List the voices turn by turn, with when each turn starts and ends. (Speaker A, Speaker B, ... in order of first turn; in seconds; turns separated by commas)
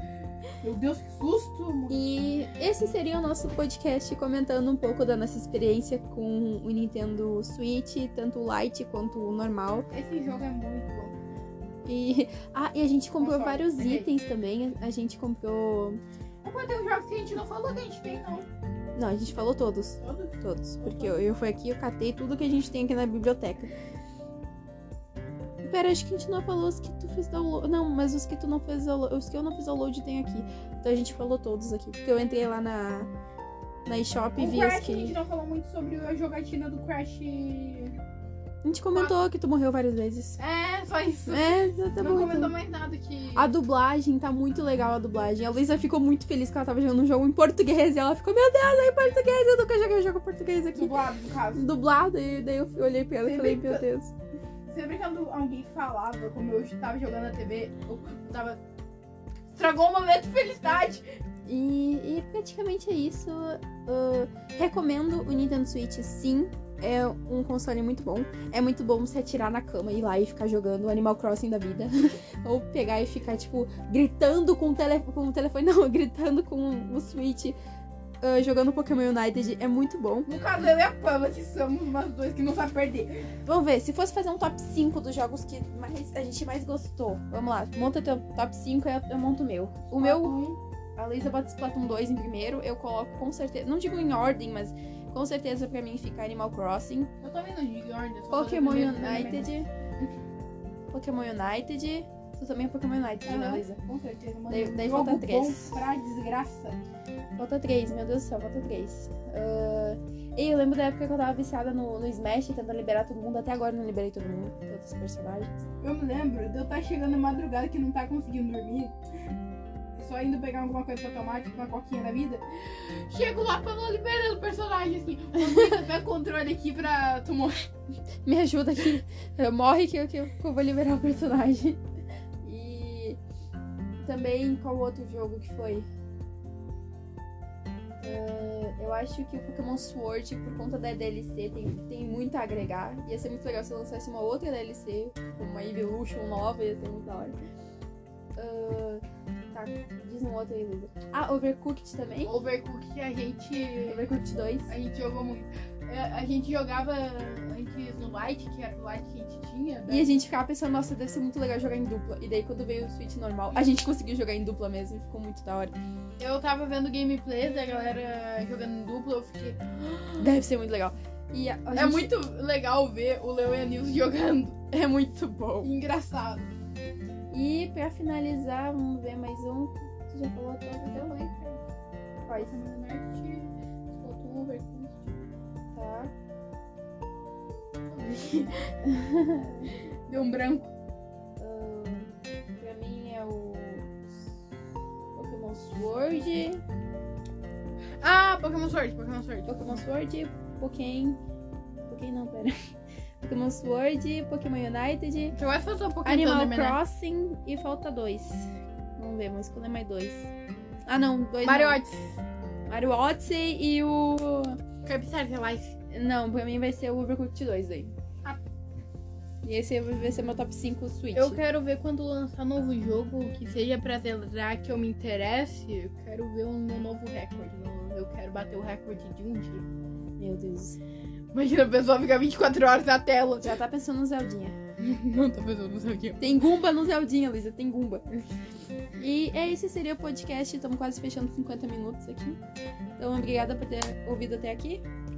Speaker A: 0.6-2.0, Speaker B: 1.9-9.9, Speaker A: 9.9-11.2, Speaker B: 11.9-16.0, Speaker A: 13.2-14.1, Speaker A: 16.4-18.5, Speaker B: 19.0-23.7, Speaker A: 20.0-21.2, Speaker B: 25.6-33.1, Speaker B: 33.9-35.1, Speaker A: 34.4-38.0, Speaker B: 38.6-40.4, Speaker A: 40.4-43.5, Speaker B: 41.3-42.5, Speaker B: 43.4-51.0, Speaker A: 50.7-51.6, Speaker B: 51.5-54.1, Speaker A: 53.2-53.9, Speaker A: 54.7-58.6, Speaker A: 59.5-61.0, Speaker B: 61.5-77.6, Speaker B: 78.2-80.3, Speaker A: 80.3-83.3, Speaker B: 83.5-90.4, Speaker A: 90.0-90.6, Speaker B: 91.0-97.1, Speaker A: 97.2-100.1, Speaker B: 98.3-99.7, Speaker B: 100.9-103.8, Speaker A: 103.2-106.8, Speaker B: 104.5-105.8, Speaker B: 107.4-115.7, Speaker A: 115.8-119.0, Speaker A: 120.0-127.7, Speaker B: 125.4-125.7, Speaker B: 128.3-131.8, Speaker B: 132.4-133.2, Speaker B: 134.0-135.9, Speaker B: 138.0-147.3, Speaker B: 148.4-152.3, Speaker A: 152.2-154.1, Speaker B: 153.8-154.7, Speaker A: 154.7-160.2, Speaker B: 159.9-165.7, Speaker A: 166.2-170.3, Speaker B: 170.2-172.1, Speaker A: 171.7-174.6, Speaker B: 174.7-175.7, Speaker A: 175.6-176.4, Speaker B: 177.3-181.3, Speaker A: 180.8-181.6, Speaker B: 182.3-182.6, Speaker A: 182.3-185.1, Speaker B: 185.7-186.1, Speaker A: 187.9-188.7, Speaker B: 188.8-189.7, Speaker A: 190.1-190.7, Speaker B: 191.4-194.3, Speaker B: 195.1-196.6, Speaker A: 198.0-199.8, Speaker B: 199.5-201.2, Speaker B: 201.9-202.5, Speaker B: 203.2-205.4, Speaker A: 205.3-206.8, Speaker B: 206.1-210.3, Speaker B: 210.9-211.8, Speaker A: 211.4-212.2, Speaker B: 212.7-214.6, Speaker A: 214.8-215.8, Speaker B: 215.9-217.9, Speaker B: 219.4-221.4, Speaker A: 221.2-229.7, Speaker B: 230.2-230.8, Speaker A: 231.3-233.6, Speaker B: 233.4-234.6, Speaker A: 234.8-236.4, Speaker B: 236.2-238.1, Speaker B: 239.0-242.4, Speaker B: 243.0-244.8